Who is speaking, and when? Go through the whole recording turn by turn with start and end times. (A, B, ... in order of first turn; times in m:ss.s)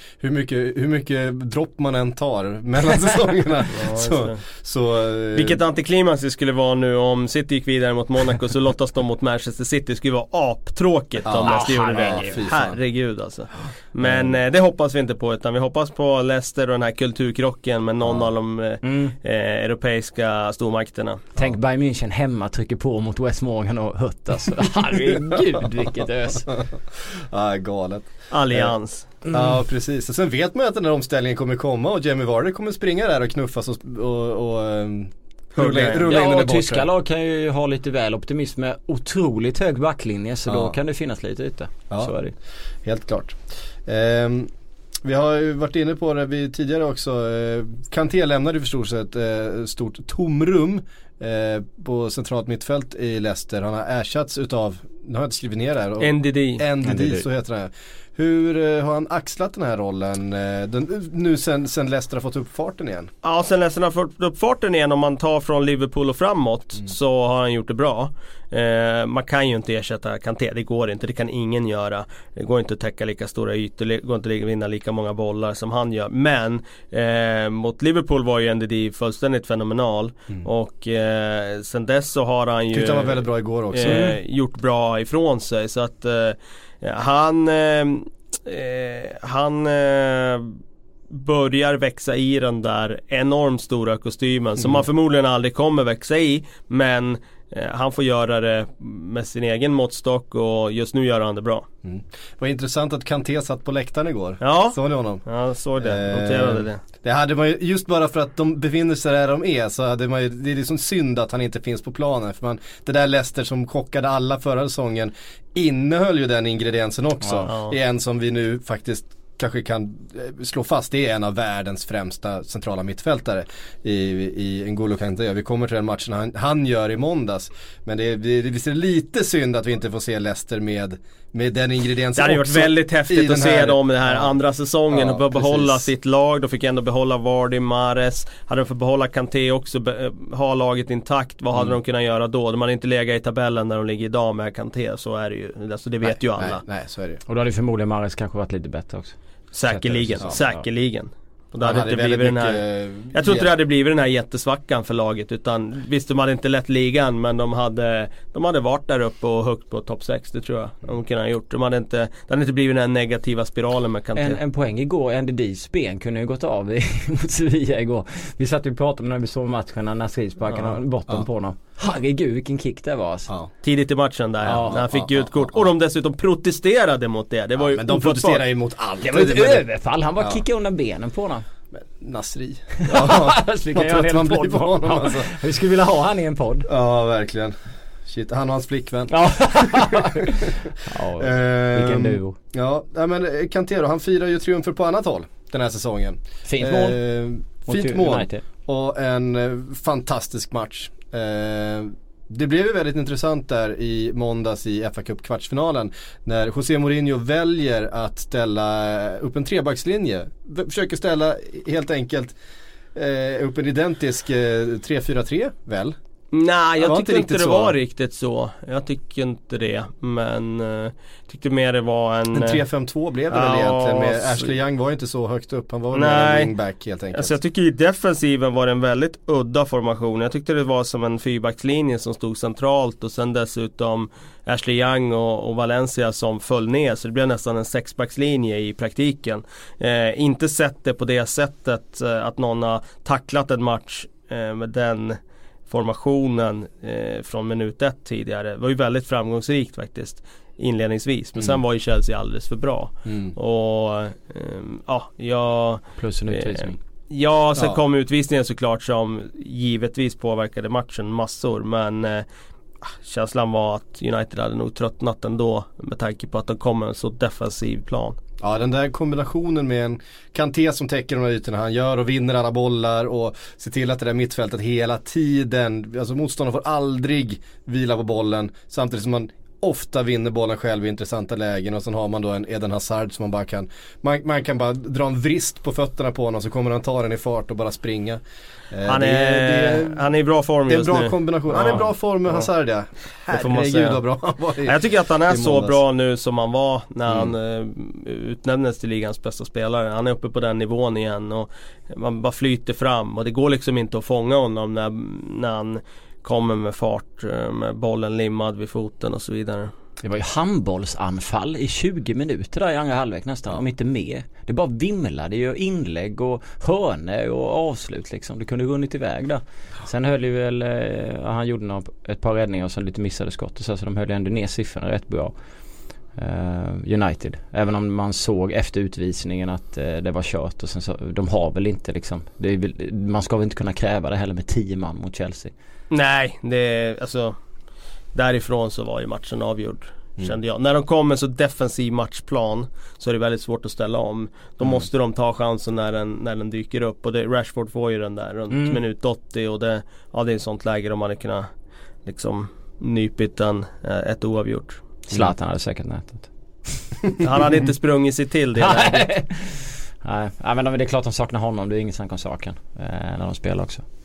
0:00.2-0:05.6 A
0:03.7-0:04.4 B
0:05.4-0:21.2 B
0:11.2-0:12.8 A
0:11.4-0:12.4 C
0:14.0-0:14.4 A
0:18.0-0:18.3 A
0:18.8-0:19.2 C
0:21.4-0:26.5 C
0:25.1-0:25.6 A
0:26.5-0:28.7 A
0:28.3-0:29.2 B
0:29.3-0:29.6 C
0:29.3-0:36.9 A
0:35.6-0:36.2 B
0:36.0-0:42.4 C
0:40.5-0:40.8 A
0:41.9-0:42.2 A
0:42.8-0:44.5 A
0:45.0-1:03.1 A
0:56.0-0:56.6 B
0:56.8-0:57.2 C
1:03.2-1:30.6 B
1:22.7-1:24.0 A
1:23.8-1:24.2 C
1:31.1-1:41.7 B
1:41.8-1:45.2 A
1:44.4-1:46.8 B
1:45.8-2:14.3 A
1:57.5-1:57.8 B
2:12.2-2:26.6 B
2:14.9-2:15.9 A
2:26.0-2:27.2 A
2:27.3-2:29.2 C
2:29.5-2:44.4 B
2:29.8-2:30.4 A
2:30.0-2:30.6 C
2:31.6-2:33.5 A
2:44.2-2:53.3 C
2:53.6-2:58.4 B
2:54.4-2:54.8 C
2:54.6-2:55.6 A
2:57.6-2:59.6 A
2:59.0-3:01.4 C
3:01.7-3:05.3 A
3:02.8-3:06.7 C
3:06.7-3:32.3 A
3:09.1-3:12.4 C
3:16.4-3:17.0 C
3:17.7-3:18.4 C
3:32.9-3:36.0 A
3:36.3-3:42.6 B
3:36.8-3:37.8 A
3:42.3-3:47.4 A
3:43.3-3:44.5 B
3:45.9-3:46.5 B
3:47.1-4:05.2 B
4:05.7-4:22.3 B
4:13.1-4:13.3 A
4:16.0-4:16.8 C
4:22.8-4:28.2 B
4:28.4-4:50.0 A
4:48.9-4:52.5 B
4:50.7-4:55.8 A
4:53.3-4:54.0 B
4:54.6-5:09.7 B
4:57.1-4:57.3 A
5:10.0-5:25.3 C
5:26.1-5:35.5 C
5:35.9-5:37.4 B
5:38.1-5:51.5 B
5:48.5-5:48.8 C
5:52.0-5:54.8 B
5:55.1-5:56.9 C
5:57.2-5:59.1 B
5:58.6-6:03.8 C